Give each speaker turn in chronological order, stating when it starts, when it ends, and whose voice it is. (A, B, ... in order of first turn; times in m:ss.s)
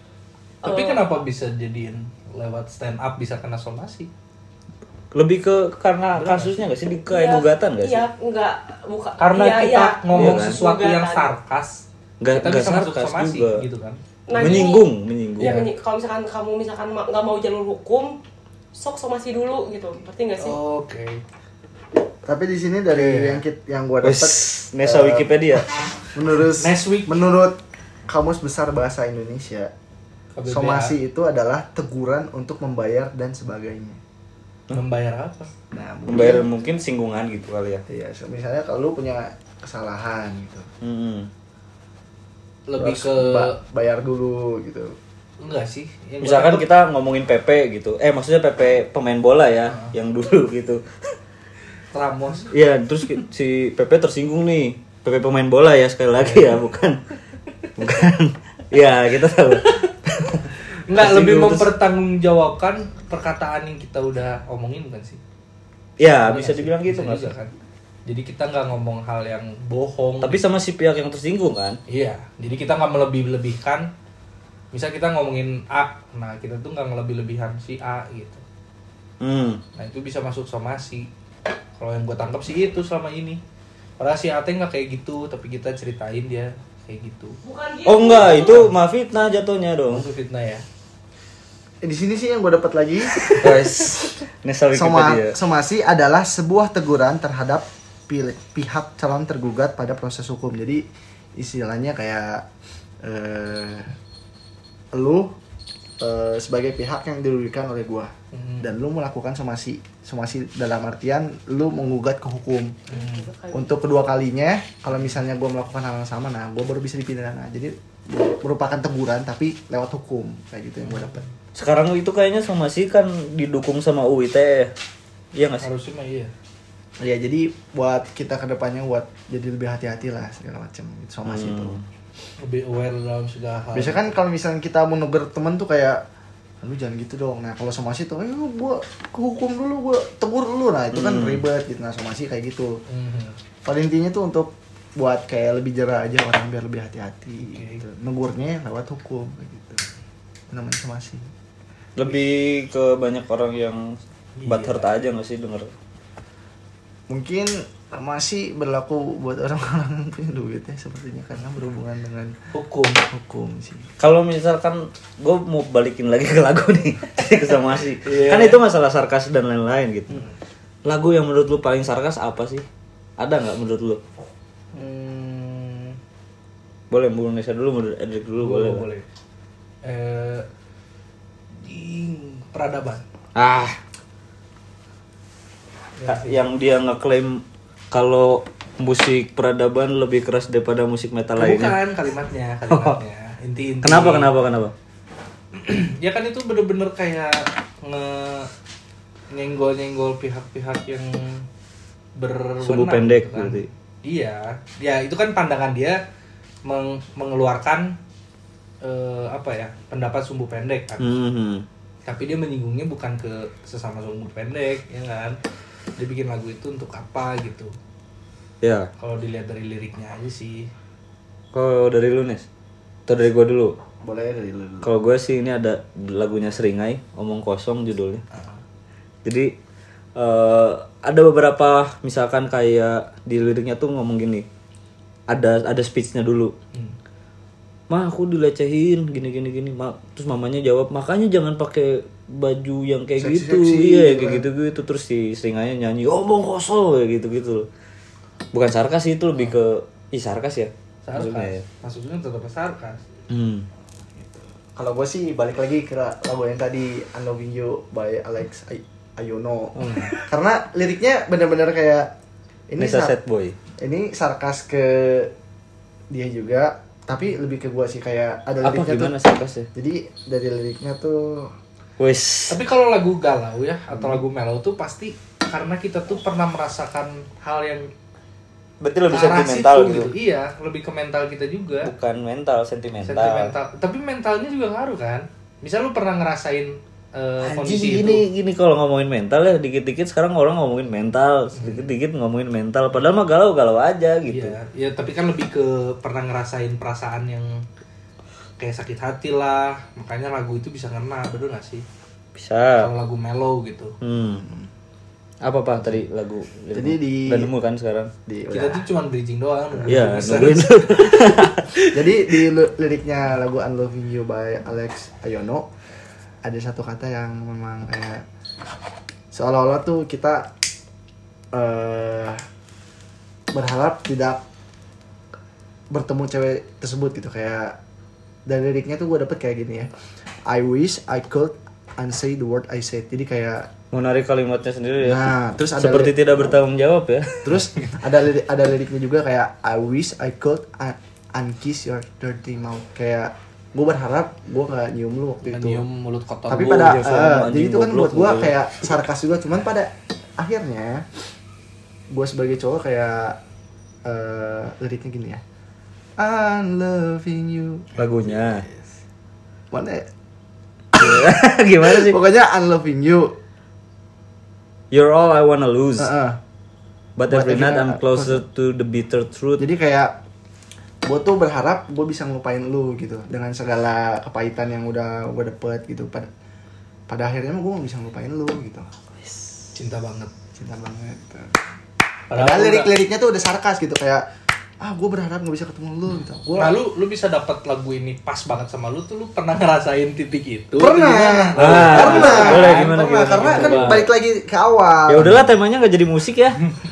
0:00.6-0:01.1 A
0:00.6-0:04.1 B
0:05.1-0:08.0 C
0:06.1-0:06.6 B
0:07.1-0:11.3 A
0:09.2-0:14.6 B
0:10.1-0:10.6 C
0:12.2-0:13.6 C
0:14.3-0:14.9 A
0:14.3-0:15.6 C
0:15.4-0:15.7 B
0:15.4-0:18.2 A
0:18.7-0:20.6 A
0:20.4-0:21.2 B
0:22.2-0:25.3 D
0:22.9-0:23.4 B
0:24.0-0:25.6 C
0:26.1-0:27.6 D
0:26.6-0:27.1 B
0:28.1-0:29.7 D
0:30.3-0:30.9 B
0:30.5-0:34.0 D
0:34.7-0:35.5 B
0:35.7-0:36.5 D
0:36.1-0:37.8 C
0:37.9-0:40.7 D
0:40.8-0:41.3 C
0:42.7-0:43.6 B
0:42.8-0:45.0 D
0:45.4-0:46.6 B
0:46.2-0:50.8 C
0:51.9-0:52.5 B
0:52.5-0:57.0 C
0:56.2-0:56.6 B
0:57.8-1:01.7 C
1:00.9-1:05.2 B
1:06.0-1:07.3 C
1:06.2-1:07.5 B
1:08.0-1:10.4 B
1:10.2-1:11.8 C
1:11.9-1:13.9 B
1:14.7-1:18.4 B
1:19.2-1:19.6 C
1:19.8-1:21.1 B
1:21.8-1:23.4 B
1:24.0-1:27.4 B
1:27.4-1:28.6 A
1:27.8-1:30.0 C
1:28.3-1:28.7 B
1:29.9-1:30.6 B
1:31.8-1:33.6 D
1:33.4-1:35.4 C
1:34.7-1:40.8 D
1:41.4-1:42.4 D
1:43.0-1:43.9 D
1:44.9-1:45.3 D
1:46.0-1:52.8 D
1:48.3-1:48.7 B
1:52.9-1:53.3 B
1:52.9-1:53.8 A
1:53.5-2:01.2 D
2:00.8-2:01.2 B
2:01.5-2:04.7 C
2:05.3-2:05.7 C
2:05.6-2:06.3 B
2:07.0-2:11.8 D
2:11.2-2:11.8 C
2:12.4-2:14.1 B
2:13.7-2:16.0 D
2:16.6-2:22.8 D
2:20.9-2:21.4 C
2:22.9-2:23.4 B
2:23.6-2:29.9 D
2:27.5-2:27.8 B
2:30.5-2:31.3 D
2:32.0-2:35.7 C
2:34.4-2:34.9 B
2:37.1-2:42.4 D
2:42.5-2:43.0 B
2:43.1-2:43.9 D
2:44.0-2:50.2 C
2:48.0-2:48.6 B
2:50.8-2:52.6 C
2:53.2-2:54.0 C
2:54.7-2:56.0 B
2:56.9-2:58.8 C
2:58.4-2:59.0 B
2:59.8-3:00.4 B
3:01.6-3:03.0 B
3:03.3-3:03.8 C
3:06.0-3:06.4 B
3:06.0-3:11.8 C
3:11.4-3:14.3 B
3:12.7-3:13.0 C
3:13.8-3:14.7 C
3:15.5-3:18.5 B
3:19.3-3:21.4 B
3:22.2-3:26.0 B
3:22.6-3:23.7 C
3:26.6-3:28.0 B
3:28.8-3:31.2 B
3:31.0-3:31.6 C
3:32.0-3:35.4 B
3:36.0-3:37.7 B
3:38.6-3:38.9 C
3:39.0-3:40.7 B
3:41.5-3:42.4 C
3:43.1-3:43.8 C
3:44.0-3:44.9 D
3:44.8-3:48.2 C
3:49.2-3:49.5 C
3:50.2-3:54.4 C
3:55.3-3:56.5 C
3:57.9-4:07.7 C
4:03.2-4:04.4 D
4:08.5-4:11.6 C
4:11.0-4:13.0 B
4:13.3-4:13.7 C
4:14.2-4:22.1 D
4:19.8-4:20.2 B
4:22.7-4:23.1 D
4:22.8-4:23.6 C
4:23.8-4:25.3 D
4:26.1-4:29.2 D
4:28.6-4:29.7 C
4:29.7-4:31.5 D
4:32.0-4:32.6 C
4:32.5-4:37.9 B
4:33.9-4:34.2 D
4:38.8-4:40.1 C
4:39.1-4:41.9 B
4:41.8-4:43.5 C
4:43.0-4:48.2 B
4:47.4-4:54.5 C
4:51.5-4:51.9 B
4:54.3-4:57.6 B
4:58.6-5:01.8 B
5:02.3-5:02.9 C
5:02.8-5:03.9 B
5:04.0-5:04.4 C
5:04.4-5:04.6 D
5:05.4-5:08.1 C
5:06.7-5:07.5 D
5:08.2-5:08.8 D
5:08.5-5:11.5 B
5:09.9-5:11.7 C
5:11.9-5:15.7 D
5:16.4-5:18.2 D
5:19.3-5:20.5 D
5:21.5-5:22.4 D
5:23.5-5:24.4 D
5:25.9-5:27.8 D
5:28.4-5:29.9 D
5:30.4-5:33.7 D
5:33.9-5:37.5 C
5:35.0-5:36.6 D
5:37.4-5:45.8 D
5:45.4-5:47.0 B
5:46.5-5:51.1 D
5:46.7-5:48.6 C
5:52.1-5:53.4 D
5:54.0-5:55.4 D
5:56.2-5:58.8 D
5:58.0-5:58.6 C
5:59.7-6:00.1 D
6:01.0-6:02.2 C
6:01.0-6:03.3 D
6:04.9-6:06.1 C
6:06.0-6:06.4 D
6:07.2-6:09.6 C
6:07.3-6:08.4 D
6:09.6-6:10.1 D
6:11.0-6:16.3 D
6:17.1-6:18.9 D
6:19.7-6:20.3 B
6:20.5-6:21.6 D
6:22.3-6:22.9 B
6:22.3-6:24.2 D
6:24.8-6:26.8 D
6:26.5-6:34.1 B
6:30.8-6:35.5 D
6:31.6-6:34.1 C
6:35.1-6:36.6 C